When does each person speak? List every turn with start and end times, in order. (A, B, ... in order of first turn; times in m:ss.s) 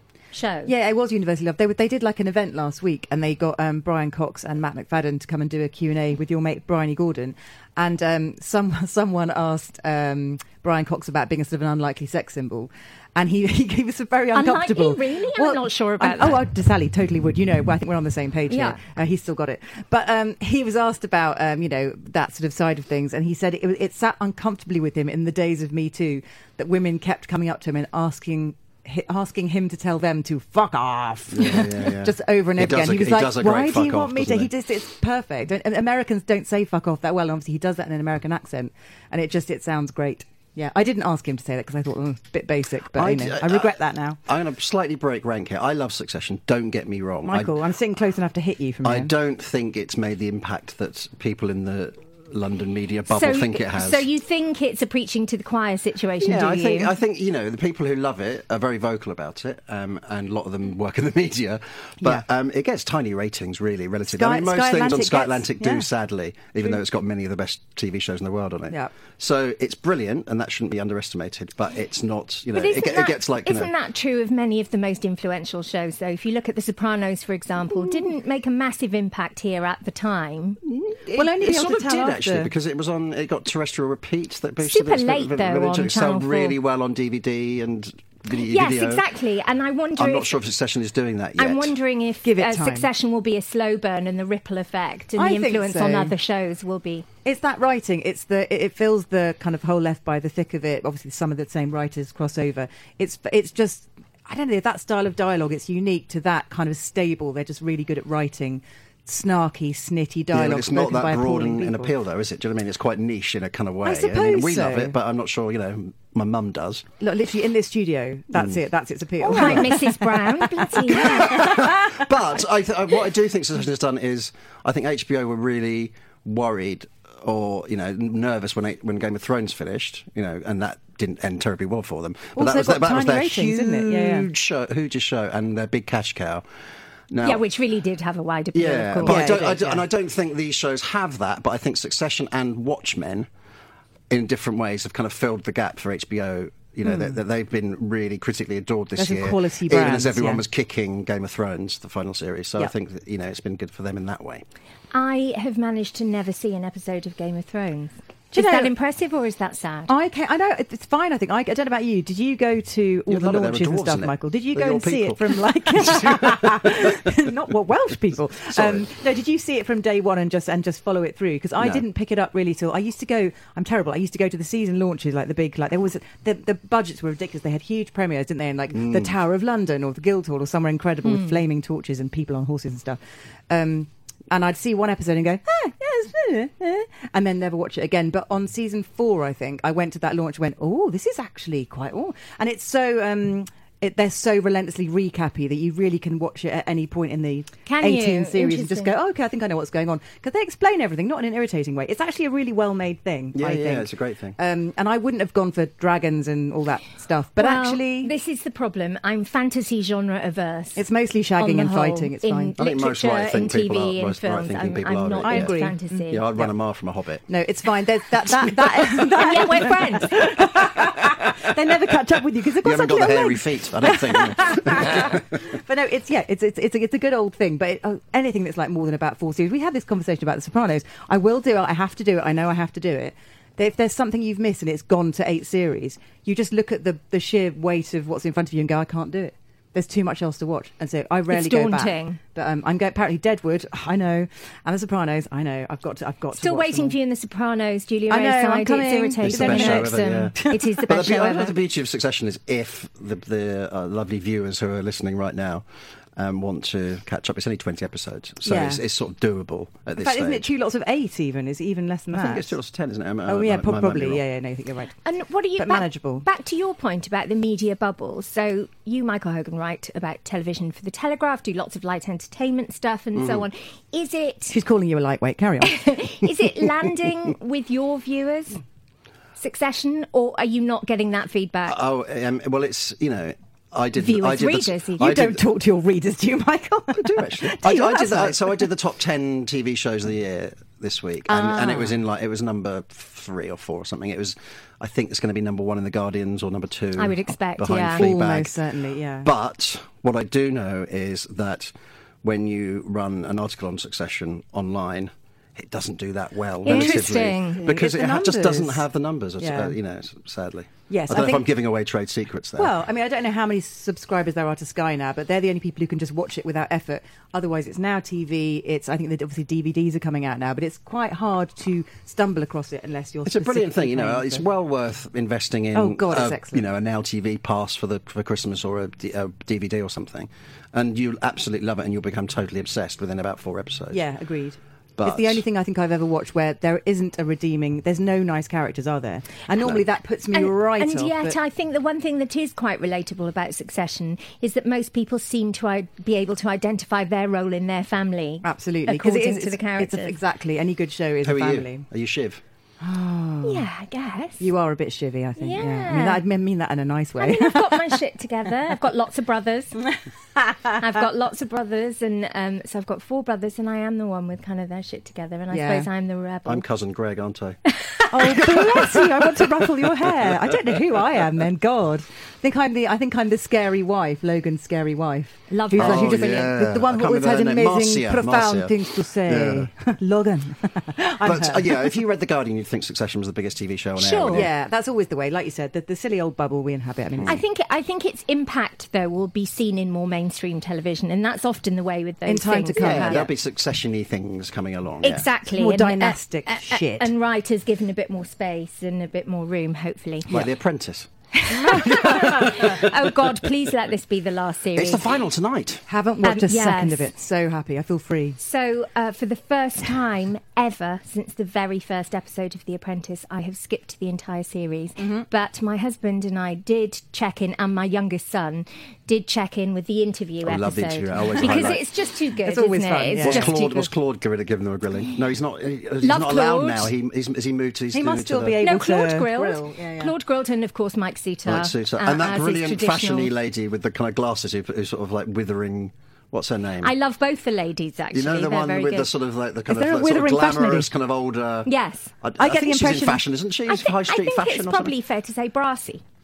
0:00.3-0:00.7 A
0:00.6-0:44.2 B
0:14.3-0:16.4 A
0:18.5-0:18.8 A
0:31.3-0:34.5 C
0:42.9-0:47.6 C
0:47.2-0:49.1 B
0:48.8-0:54.0 C
0:53.1-0:56.9 A
0:56.2-1:13.7 C
1:04.1-1:05.9 B
1:12.5-1:20.6 A
1:20.6-1:29.0 C
1:21.1-1:22.5 B
1:24.6-1:26.6 A
1:28.4-1:30.4 A
1:30.0-1:31.7 C
1:31.4-1:37.1 A
1:32.2-1:32.9 B
1:35.2-1:36.1 B
1:37.2-1:51.9 B
1:50.3-1:56.8 C
1:53.8-1:54.9 B
1:57.0-2:02.0 B
1:59.2-2:01.6 A
1:59.4-1:59.6 C
2:00.9-2:16.4 C
2:12.3-2:14.3 B
2:17.1-2:17.4 C
2:17.2-2:19.3 A
2:18.5-2:23.3 C
2:19.0-2:19.8 B
2:24.1-2:34.4 C
2:26.8-2:27.2 B
2:29.0-2:30.4 B
2:34.9-2:39.9 A
2:38.3-2:38.7 B
2:39.9-3:03.0 B
2:43.1-2:45.2 C
2:45.7-2:46.9 C
2:48.5-2:48.8 C
2:51.6-2:51.8 C
2:58.7-2:59.1 C
3:03.5-3:28.1 B
3:17.6-3:18.9 A
3:23.3-3:24.4 C
3:27.4-3:30.8 A
3:30.8-3:32.5 B
3:31.4-3:36.3 A
3:32.6-3:37.2 C
3:35.2-3:35.8 B
3:37.3-4:07.0 B
3:39.2-3:40.2 A
3:42.6-3:45.3 C
4:01.3-4:02.2 A
4:06.4-4:11.5 A
4:08.1-4:10.8 B
4:09.2-4:15.6 C
4:16.2-4:20.5 C
4:18.4-4:18.8 B
4:20.0-4:22.5 B
4:22.1-4:24.2 C
4:23.3-4:25.0 B
4:25.0-4:34.6 A
4:25.6-4:26.2 B
4:33.2-4:33.4 C
4:34.5-4:35.9 B
4:35.6-4:38.6 A
4:39.4-4:41.8 A
4:41.7-4:45.4 C
4:44.0-4:45.1 A
4:45.0-4:48.7 B
4:46.9-4:58.5 C
4:51.3-4:51.9 B
4:57.0-4:58.1 A
4:57.9-4:59.3 B
4:59.2-5:01.7 C
5:02.2-5:12.7 C
5:06.6-5:07.6 A
5:06.7-5:08.8 B
5:09.4-5:09.8 B
5:10.9-5:11.5 B
5:12.6-5:24.4 B
5:23.2-5:34.0 C
5:25.7-5:26.6 B
5:33.9-5:41.4 B
5:35.0-5:35.4 C
5:40.3-5:50.1 A
5:48.4-5:51.8 B
5:51.2-5:52.4 C
5:52.8-5:53.7 B
5:53.4-5:54.5 A
5:54.4-5:57.9 B
5:55.4-5:56.2 A
5:57.2-5:59.9 A
6:00.4-6:00.7 B
6:00.8-6:06.6 A
6:05.5-6:05.9 B
6:06.4-6:07.6 C
6:07.9-6:08.6 A
6:08.1-6:21.9 B
6:10.1-6:10.5 C
6:15.5-6:16.5 A
6:15.7-6:19.7 C
6:21.2-6:24.5 C
6:24.0-6:24.4 A
6:24.3-6:27.4 B
6:27.2-6:33.3 A
6:32.2-6:33.3 B
6:32.8-6:35.3 C
6:35.0-6:40.3 A
6:35.5-6:37.1 B
6:40.3-6:41.1 C
6:41.5-6:45.1 A
6:41.6-6:42.6 B
6:41.7-6:42.2 C
6:44.7-6:45.8 C
6:45.9-6:48.4 B
6:46.2-6:47.1 A
6:48.4-7:03.9 A
6:55.0-6:55.2 B
7:00.4-7:01.8 C
7:02.4-7:03.6 B
7:03.2-7:08.6 C
7:06.0-7:06.9 A
7:07.9-7:10.1 B
7:08.6-7:13.3 A
7:11.4-7:16.9 C
7:16.8-7:19.1 A
7:18.1-7:21.7 C
7:19.7-7:20.9 B
7:21.6-7:22.1 A
7:22.2-7:24.9 C
7:22.4-7:23.2 B
7:23.7-7:26.0 A